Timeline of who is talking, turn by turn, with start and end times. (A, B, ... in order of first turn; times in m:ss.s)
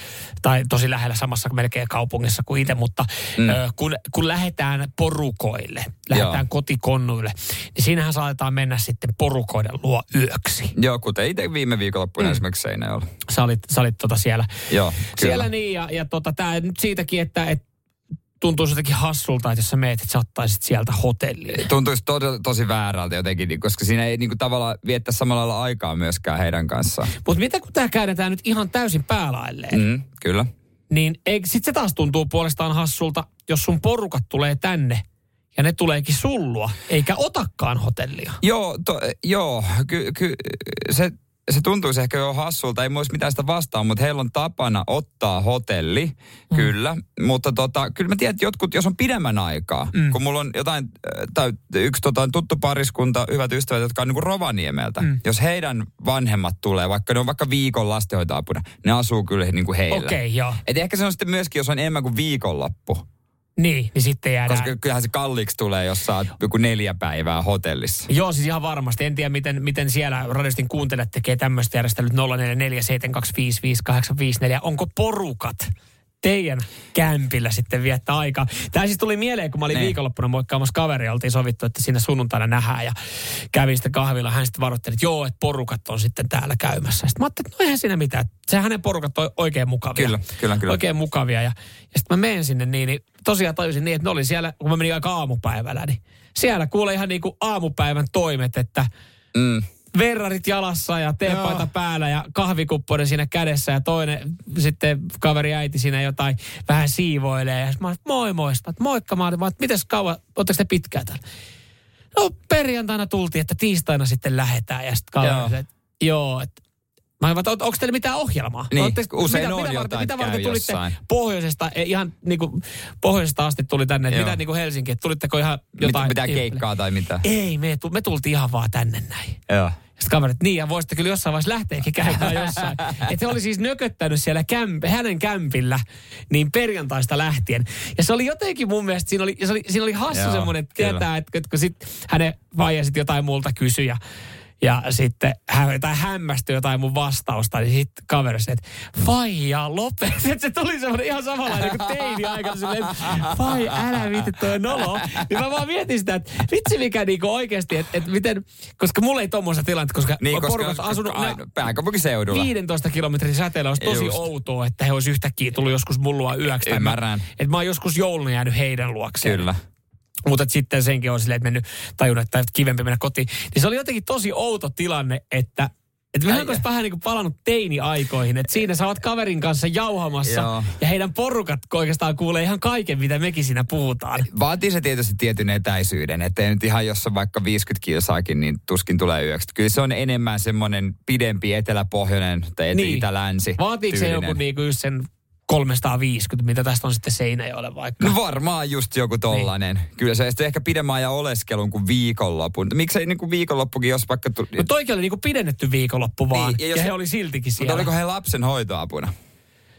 0:00.4-0:10.8 A
0:06.1-0:06.4 B
0:10.8-0:13.0 B
0:13.3-0:14.5 A
0:14.7-0:15.5 B
0:15.1-0:17.6 A
0:18.4-0:21.7 A
0:21.5-0:27.1 B
0:27.2-0:29.8 A
0:29.7-0:30.5 B
0:30.9-0:38.4 A
0:38.4-1:03.0 B
0:59.9-1:00.6 A
1:03.6-1:04.7 A
1:04.5-1:08.1 B
1:08.1-1:15.7 A
1:16.2-1:23.0 A
1:23.5-1:38.9 A
1:30.0-1:30.8 B
1:39.3-1:39.6 B
1:39.9-1:51.2 A
1:41.3-1:41.6 B
1:52.1-1:56.6 A
1:55.2-1:55.5 B
1:57.2-2:06.6 A
1:58.7-2:01.0 B
2:04.1-2:04.4 B
2:05.8-2:07.2 B
2:07.2-2:09.4 A
2:09.5-2:09.8 B
2:10.0-2:24.0 A
2:20.1-2:21.0 B
2:24.6-2:41.4 A
2:40.2-2:42.5 B
2:42.3-2:49.5 A
2:43.8-2:44.3 B
2:46.6-2:47.3 B
2:49.2-2:49.6 B
2:50.3-3:04.3 A
2:56.3-2:56.6 B
3:00.2-3:00.7 B
3:04.2-3:14.4 B
3:12.7-3:18.2 A
3:18.0-3:24.6 B
3:24.6-3:27.9 A
3:26.3-3:26.9 B
3:27.6-3:29.1 B